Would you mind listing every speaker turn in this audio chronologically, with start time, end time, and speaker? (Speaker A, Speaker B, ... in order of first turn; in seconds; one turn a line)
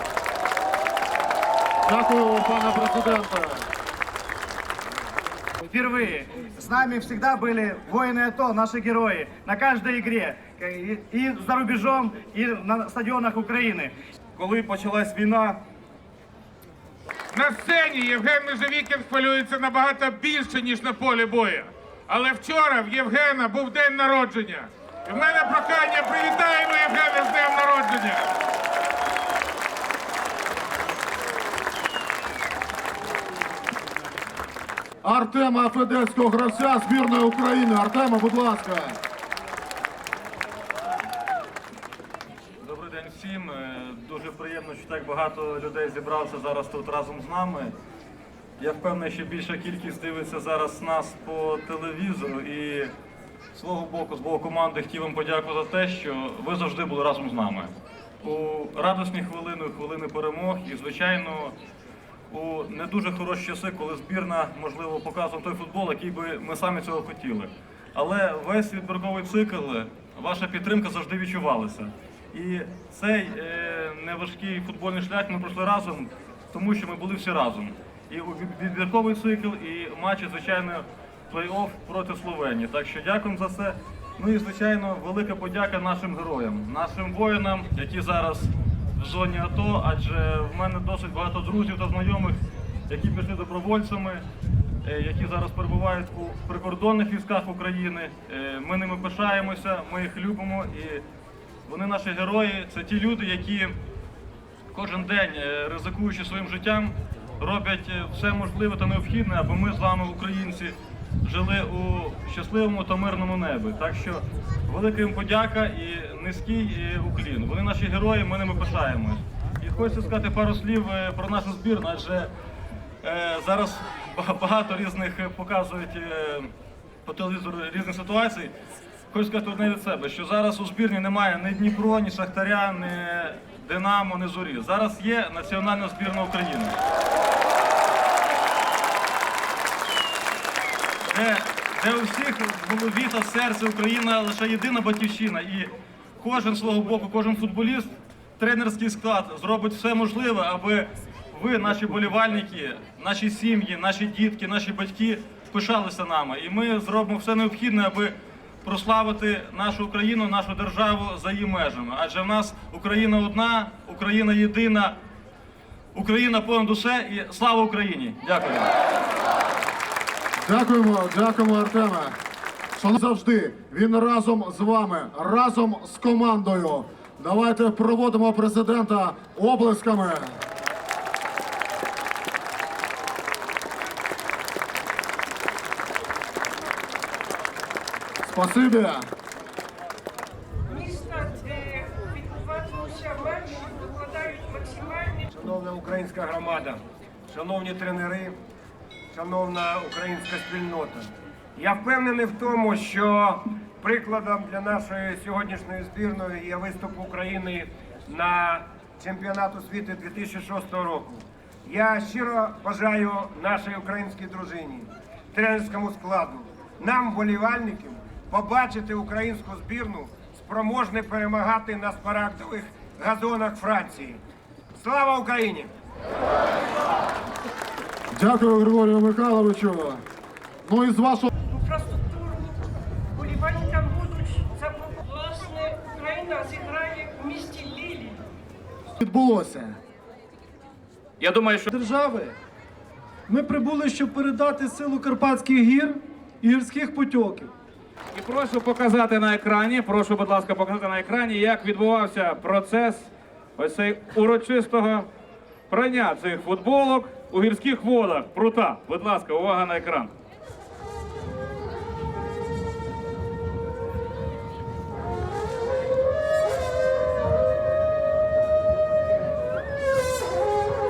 Speaker A: 1.9-3.6
Speaker B: 5.8-13.9
Speaker C: 14.4-15.5
Speaker D: 17.3-28.2
Speaker A: 35.0-39.0
Speaker C: 42.6-47.7
Speaker C: 48.6-52.9
Speaker C: 53.5-61.5
Speaker C: 62.3-94.2
Speaker C: 94.8-101.0
Speaker C: 101.7-103.8
Speaker C: 104.7-122.3
Speaker C: 123.0-126.5
Speaker C: 127.0-128.5
Speaker C: 129.1-136.8
Speaker C: 141.1-165.0
Speaker C: 165.9-168.7
Speaker A: 170.4-172.1
Speaker A: 172.8-180.3
Speaker A: 188.2-189.1
Speaker E: 190.7-195.2
Speaker F: 195.3-198.3
Speaker F: 199.1-224.2
Speaker F: 224.7-225.7
Speaker A: 228.1-230.0
Speaker A: 230.6-231.3
Speaker E: 231.5-232.5
Speaker E: 233.1-238.2
Speaker A: 239.0-239.7
Speaker G: 241.2-241.7
Speaker H: 241.7-242.3
Speaker H: 243.3-247.5
Speaker G: 248.1-255.1
Speaker G: 255.7-260.1